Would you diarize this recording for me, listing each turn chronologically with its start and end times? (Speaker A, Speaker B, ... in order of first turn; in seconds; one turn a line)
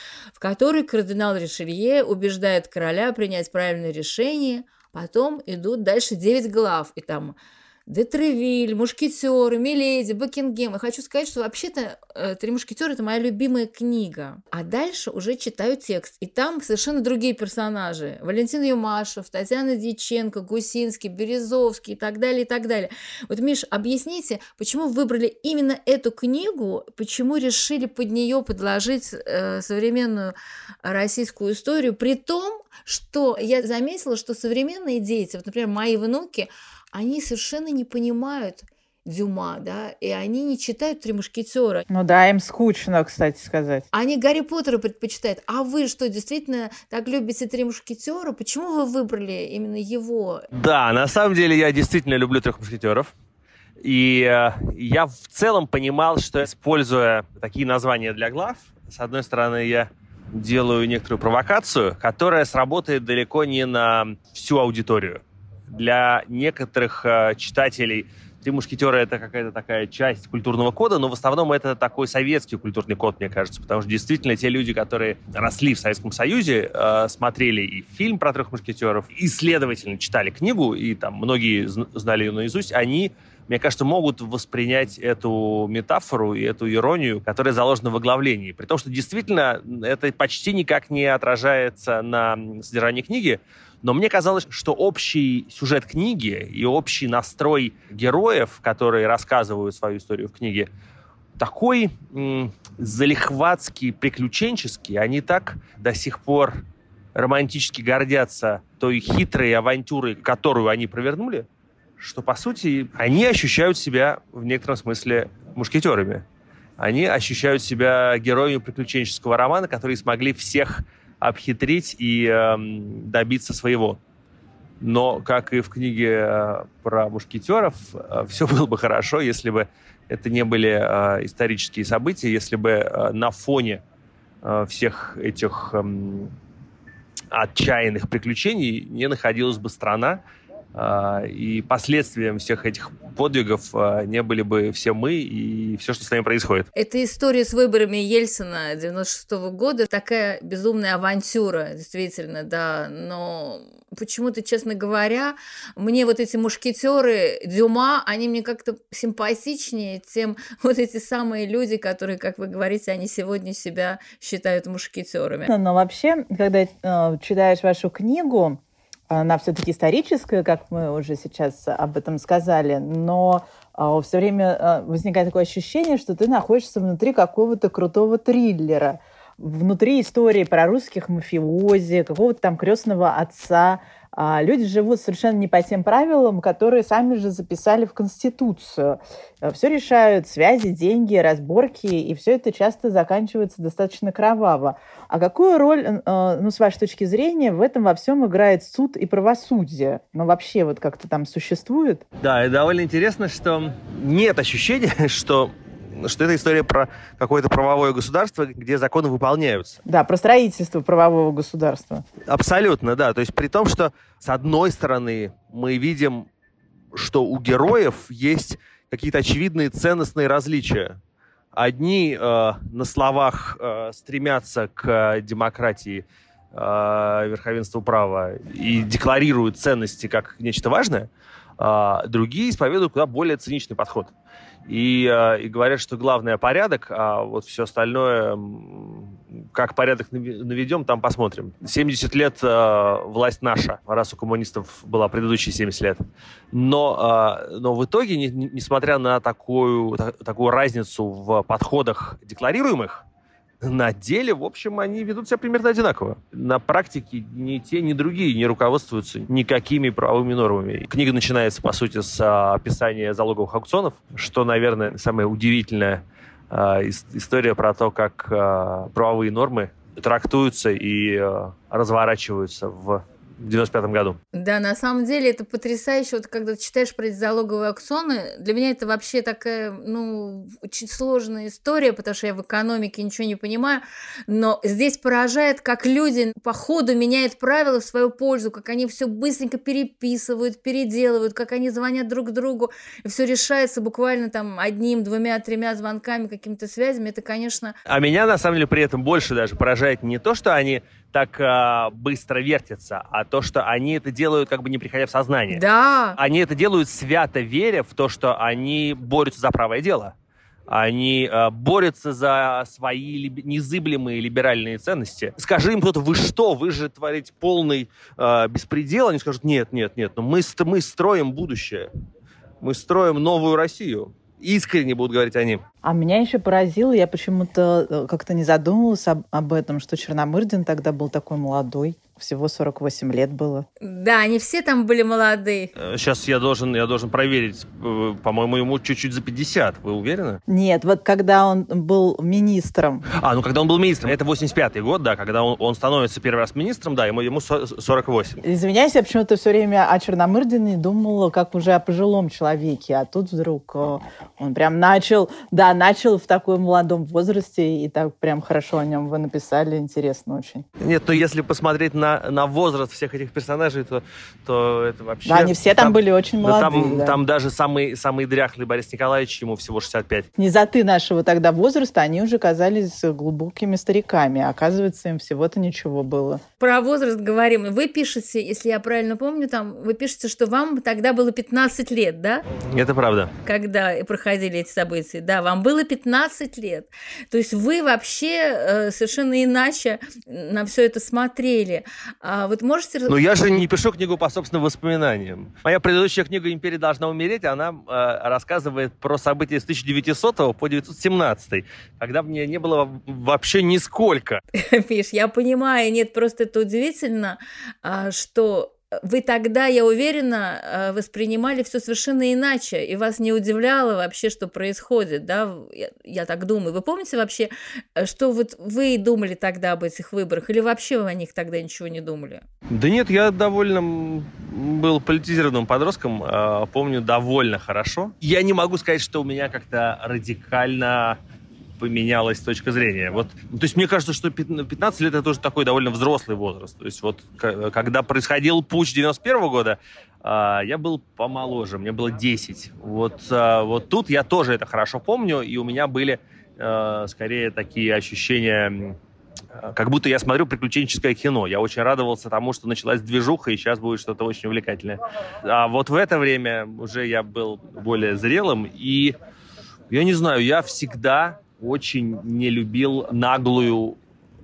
Speaker A: 0.3-41.8
Speaker B: 41.9-43.8
Speaker A: 43.9-50.5
Speaker C: 50.5-53.1
Speaker C: 53.8-100.7
Speaker C: 101.4-106.6
Speaker C: 107.1-111.5
Speaker C: 112.0-116.2
Speaker C: 116.8-124.0
Speaker C: 124.8-133.8
Speaker C: 134.4-136.3
Speaker C: 137.3-140.2
Speaker C: 140.7-146.7
Speaker A: 146.7-165.5
Speaker B: 165.5-202.0
Speaker C: 202.2-209.8
Speaker B: 209.8-212.1
Speaker C: 212.2-216.3
Speaker C: 216.9-221.0
Speaker C: 221.5-231.1
Speaker C: 231.6-234.1
Speaker C: 234.7-246.0
Speaker C: 246.5-253.0
Speaker C: 253.6-274.2
Speaker A: 274.3-297.8
Speaker C: 297.9-305.6
Speaker A: 305.5-306.2
Speaker C: 306.2-310.1
Speaker C: 310.7-321.9
Speaker C: 322.6-325.6
Speaker B: 325.8-333.7
Speaker A: 333.8-335.7
Speaker C: 335.8-340.4
Speaker B: 340.5-343.1
Speaker C: 343.1-348.4
Speaker B: 348.4-360.6
Speaker C: 360.8-370.3
Speaker B: 365.2-367.2
Speaker B: 370.4-376.4
Speaker A: 376.6-382.4
Speaker C: 382.6-383.3
Speaker A: 383.4-393.2
Speaker C: 393.1-404.4
Speaker A: 404.5-422.4
Speaker C: 422.7-431.2
Speaker C: 431.8-449.0
Speaker C: 449.6-459.1
Speaker C: 459.9-464.0